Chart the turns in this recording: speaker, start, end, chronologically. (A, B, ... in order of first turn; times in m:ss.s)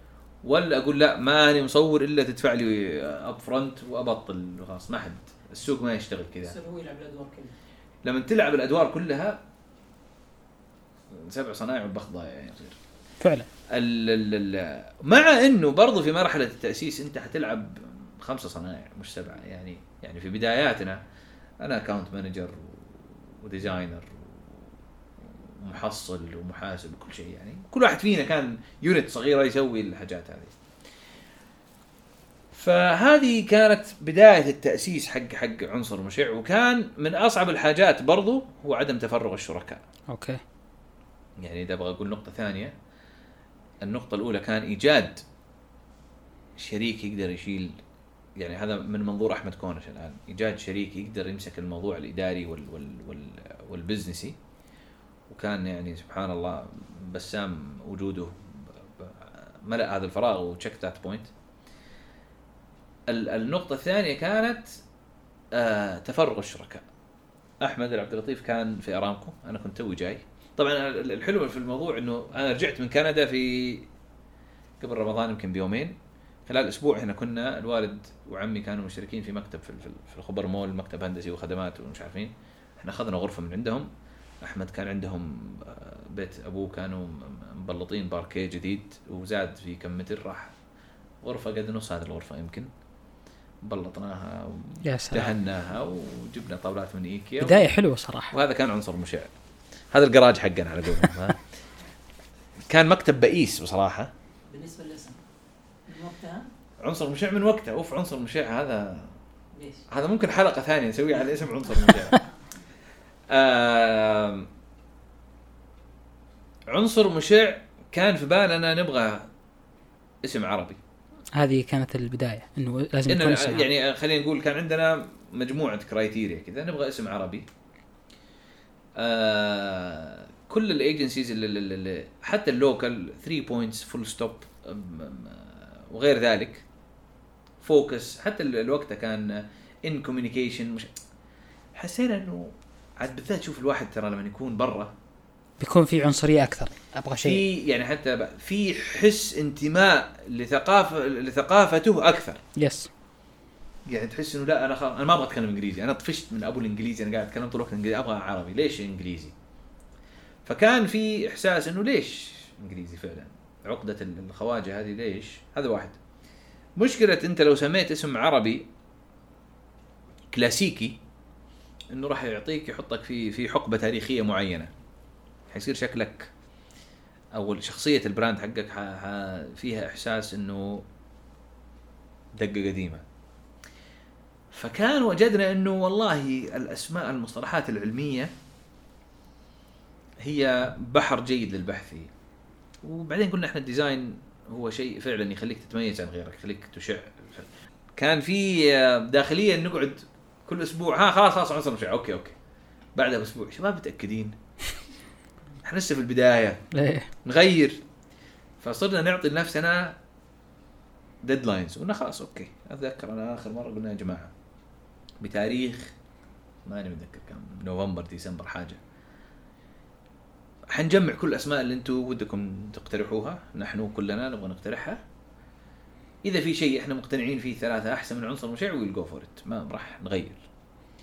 0:00.4-0:06.6 A
0:06.4-0:07.6 B
0:08.0-0:09.4 A
0:11.1-0:12.8 A
0:13.2-0:13.5 C
0:13.7-0:21.0 A
0:21.6-0:24.7 A
0:25.3-0:30.5 A
0:32.5-0:39.8 A
0:40.1-0:40.4 C
0:41.4-0:42.8 A
0:43.8-0:45.2 A
0:46.6-0:47.8 A
0:48.4-0:54.4 A
0:55.3-1:01.3 A
1:03.1-1:04.8 A
1:05.5-1:06.8 A
1:07.6-1:13.9 A
1:14.8-1:23.9 A
1:24.4-1:30.5 A
1:31.2-1:32.7 A
1:33.6-1:37.7 A
1:34.8-1:35.3 C
1:37.4-1:38.3 C
1:38.3-1:39.3 A
1:39.9-1:41.4 A
1:42.7-1:44.1 A
1:44.5-1:45.2 B
1:45.9-1:46.5 B
1:46.8-1:49.1 A
1:49.5-1:49.9 B
1:49.9-1:52.2 A
1:53.3-1:54.5 A
1:56.7-1:59.3 A
2:00.2-2:00.8 A
2:01.3-2:03.7 C
2:03.1-2:07.5 A
2:09.0-2:16.6 A
2:17.6-2:20.9 A
2:21.8-2:24.9 A
2:25.6-2:27.4 C
2:27.2-2:32.4 A
2:32.6-2:32.9 C
2:33.9-2:39.3 A
2:40.5-2:46.0 A
2:46.8-2:48.6 A
2:50.3-2:51.0 A
2:51.9-2:54.7 A
2:55.5-2:56.3 A
2:57.4-3:00.8 A
3:02.4-3:03.0 A
3:04.5-3:08.3 A
3:10.2-3:12.1 A
3:12.8-3:22.4 A
3:23.0-3:24.4 A
3:25.6-3:26.6 A
3:26.7-3:27.1 C
3:27.2-3:27.8 A
3:28.6-3:30.0 A
3:31.2-3:34.3 A
3:35.2-3:35.9 A
3:36.6-3:38.8 A
3:40.7-3:45.0 A
3:46.2-3:50.4 A